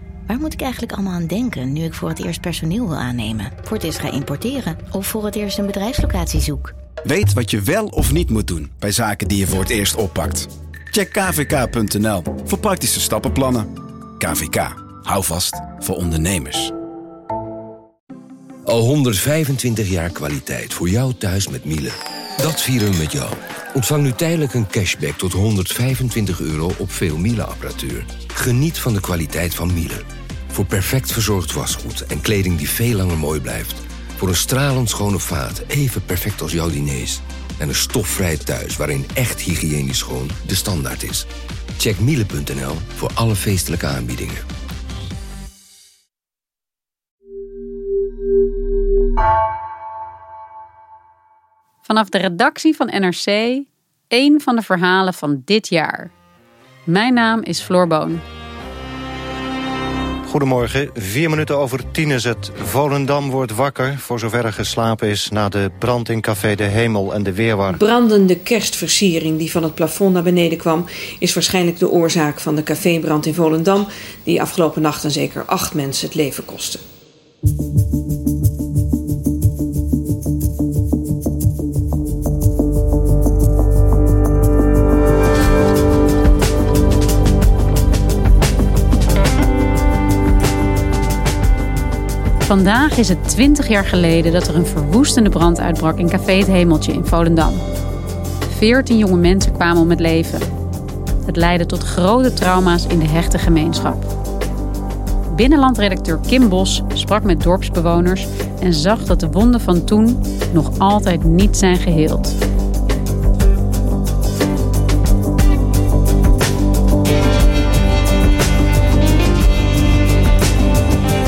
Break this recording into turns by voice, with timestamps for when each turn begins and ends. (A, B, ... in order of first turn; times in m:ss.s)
0:00.3-0:06.7 A
0:07.1-0:13.7 B
0:14.2-0:16.7 B
0:18.7-0:41.3 C
0:41.8-0:44.4 C
0:51.8-0:56.1 D
0:56.9-0:58.2 D
1:00.3-1:07.8 E
1:07.7-1:16.8 F
1:32.4-1:37.6 D
1:38.5-1:40.5 D
1:41.2-1:44.1 D
1:45.3-1:52.4 D